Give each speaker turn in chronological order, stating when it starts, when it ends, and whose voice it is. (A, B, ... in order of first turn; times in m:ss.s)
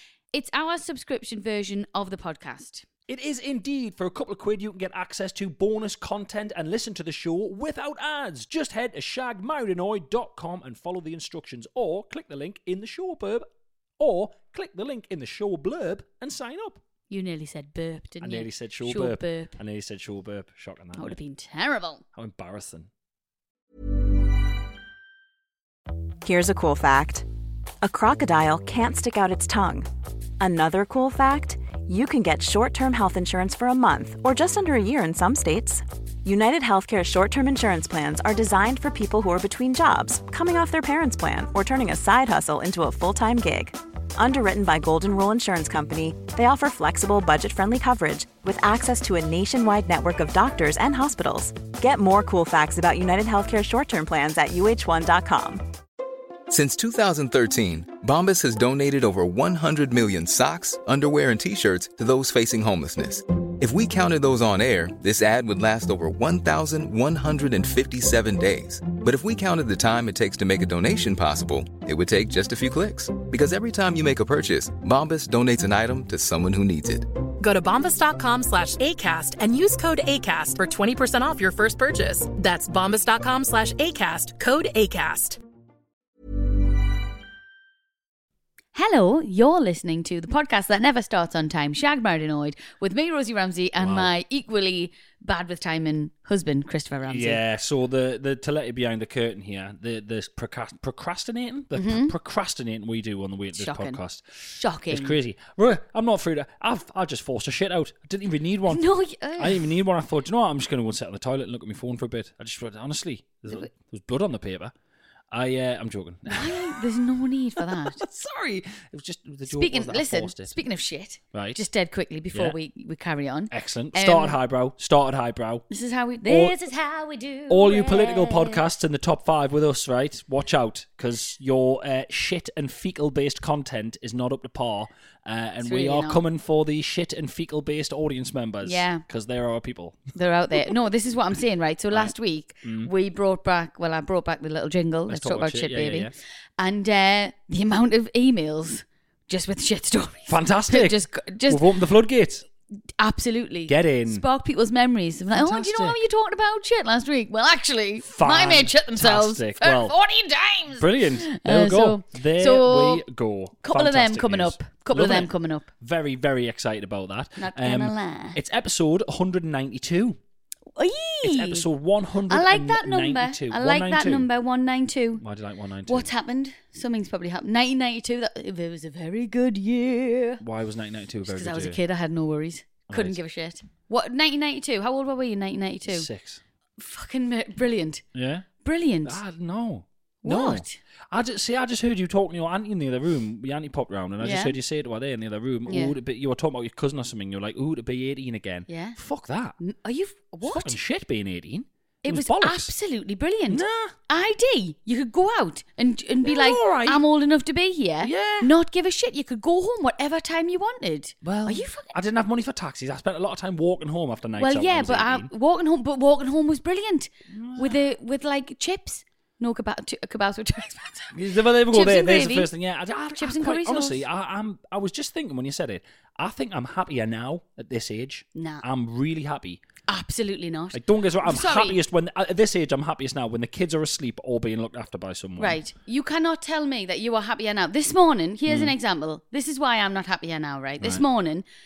0:00.3-0:02.8 A
0:03.1-0:13.4 B
0:14.0-0:16.8 B
0:17.1-0:19.5 A
0:18.2-0:21.2 B
0:21.0-0:22.0 A
0:22.1-0:22.9 B
0:26.2-0:27.2 C
0:27.8-0:29.9 C
0:30.4-0:55.6 C
0:56.5-1:17.1 D
1:17.4-1:25.4 E
1:28.7-1:37.4 A
1:33.8-1:34.1 B
1:37.0-1:48.8 B
1:41.7-1:42.1 A
1:43.6-1:45.2 A
1:48.7-1:49.7 A
1:49.4-1:54.7 B
1:55.3-1:56.8 B
1:56.3-1:58.0 A
1:57.6-2:00.5 B
1:59.5-2:04.4 A
2:01.3-2:01.6 B
2:03.5-2:05.7 B
2:05.7-2:08.6 A
2:06.2-2:06.6 B
2:07.5-2:20.7 B
2:15.6-2:16.2 A
2:18.6-2:19.0 A
2:20.1-2:31.7 A
2:21.9-2:22.9 B
2:25.1-2:26.2 B
2:30.3-2:32.4 B
2:33.0-2:43.0 A
2:33.7-2:34.2 B
2:35.3-2:36.0 B
2:38.0-2:40.0 B
2:40.8-2:50.2 B
2:43.6-2:45.7 A
2:47.4-2:48.4 A
2:50.7-2:51.6 A
2:51.2-2:54.3 B
2:52.3-2:55.2 A
2:55.2-2:56.1 B
2:55.9-3:00.4 A
3:00.4-3:01.8 B
3:01.2-3:06.1 A
3:02.9-3:03.2 B
3:05.9-3:06.4 B
3:06.8-3:08.0 A
3:08.1-3:08.5 B
3:08.6-3:09.2 A
3:09.0-3:19.5 B
3:10.2-3:10.8 A
3:14.2-3:14.6 A
3:15.7-3:16.0 A
3:18.7-3:19.0 A
3:19.6-3:20.8 A
3:20.4-3:22.7 B
3:22.0-3:31.9 A
3:23.5-3:24.0 B
3:26.2-3:27.0 B
3:28.0-3:28.5 B
3:31.2-3:35.3 B
3:34.4-3:42.5 A
3:37.3-3:37.8 B
3:41.1-3:49.6 B
3:43.1-3:44.0 A
3:48.3-3:48.6 A
3:49.9-3:51.8 A
3:50.7-3:55.6 B
3:55.4-4:01.4 A
3:58.5-3:58.7 B